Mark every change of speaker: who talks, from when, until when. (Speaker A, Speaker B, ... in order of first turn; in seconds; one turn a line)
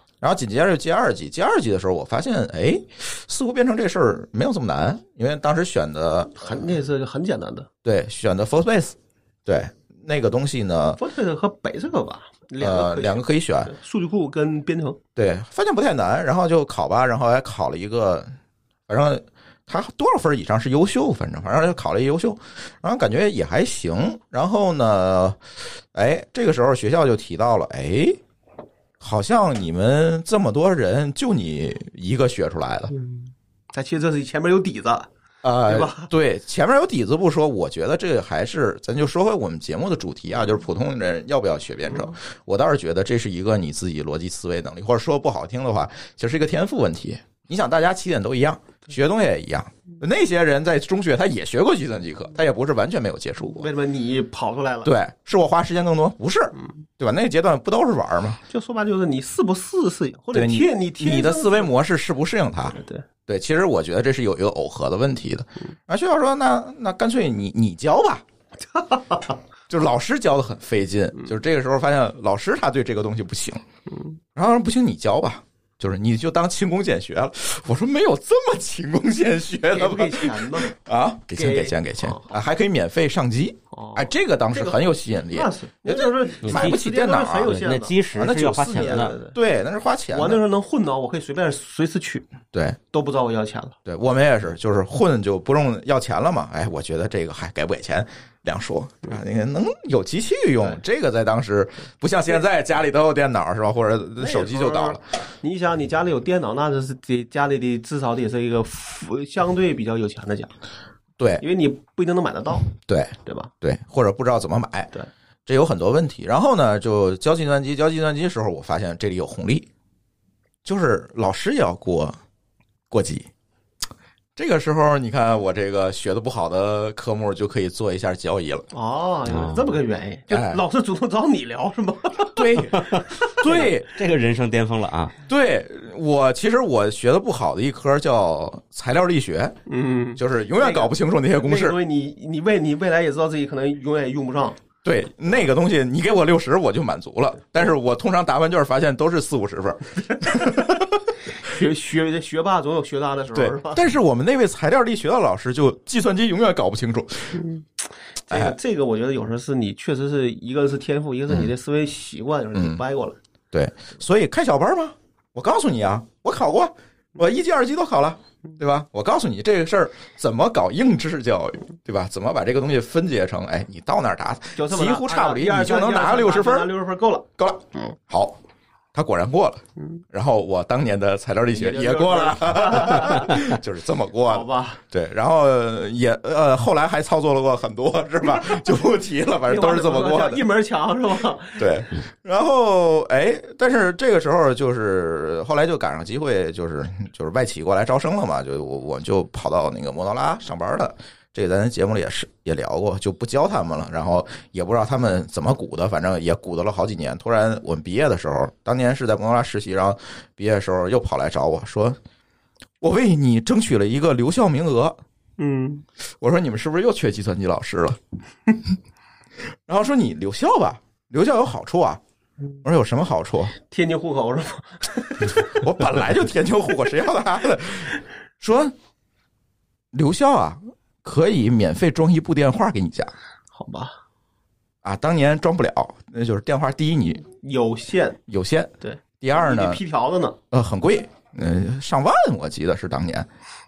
Speaker A: 0.2-6.7
Speaker B: 6.3-7.7
Speaker A: 7.8-11.0
Speaker B: 11.0-15.0
Speaker A: 12.6-13.7
Speaker A: 15.2-18.3
Speaker A: 18.9-25.4
Speaker A: 25.9-28.2
Speaker A: 29.0-32.9
Speaker B: 33.0-35.1
Speaker A: 35.4-53.7
Speaker B: 35.6-36.1
Speaker B: 53.5-54.9
Speaker A: 54.8-58.4
Speaker B: 58.5-61.7
Speaker A: 60.3-68.2
Speaker B: 62.7-63.0
Speaker B: 68.7-69.4
Speaker A: 69.7-73.6
Speaker B: 73.9-74.2
Speaker A: 74.3-87.5
Speaker B: 79.7-80.7
Speaker B: 81.3-82.3
Speaker B: 83.7-88.0
Speaker C: 86.4-86.8
Speaker C: 87.4-89.2
Speaker A: 88.1-90.4
Speaker B: 88.6-89.4
Speaker B: 90.1-92.3
Speaker A: 92.5-92.8
Speaker B: 92.9-93.8
Speaker A: 93.8-105.0
Speaker B: 104.2-110.5
Speaker B: 111.4-112.7
Speaker A: 112.7-114.9
Speaker B: 113.2-113.5
Speaker A: 115.5-119.7
Speaker A: 120.7-122.2
Speaker A: 122.9-123.3
Speaker A: 124.4-128.7
Speaker B: 128.7-133.3
Speaker C: 129.3-129.7
Speaker A: 130.3-130.6
Speaker A: 132.3-134.0
Speaker C: 132.8-135.2
Speaker A: 135.3-139.6
Speaker B: 139.7-144.6
Speaker A: 140.2-141.8
Speaker A: 144.8-151.1
Speaker B: 150.2-150.7
Speaker B: 151.3-153.8
Speaker A: 153.3-157.4
Speaker B: 157.3-163.2
Speaker A: 158.3-158.6
Speaker A: 162.6-162.8
Speaker A: 163.5-176.7
Speaker B: 174.6-177.3
Speaker A: 177.4-178.4
Speaker A: 178.9-190.4
Speaker B: 181.5-183.6
Speaker B: 184.3-184.8
Speaker B: 189.5-191.8
Speaker A: 191.6-212.0
Speaker A: 212.8-215.0
Speaker B: 215.4-215.8
Speaker A: 216.2-218.0
Speaker A: 219.7-222.0
Speaker A: 222.6-223.6
Speaker B: 223.7-225.6
Speaker A: 225.3-228.7
Speaker A: 229.9-233.1
Speaker B: 233.5-234.0
Speaker A: 234.8-237.3
Speaker B: 237.3-238.2
Speaker A: 238.3-239.8
Speaker B: 238.8-240.4
Speaker A: 240.5-243.3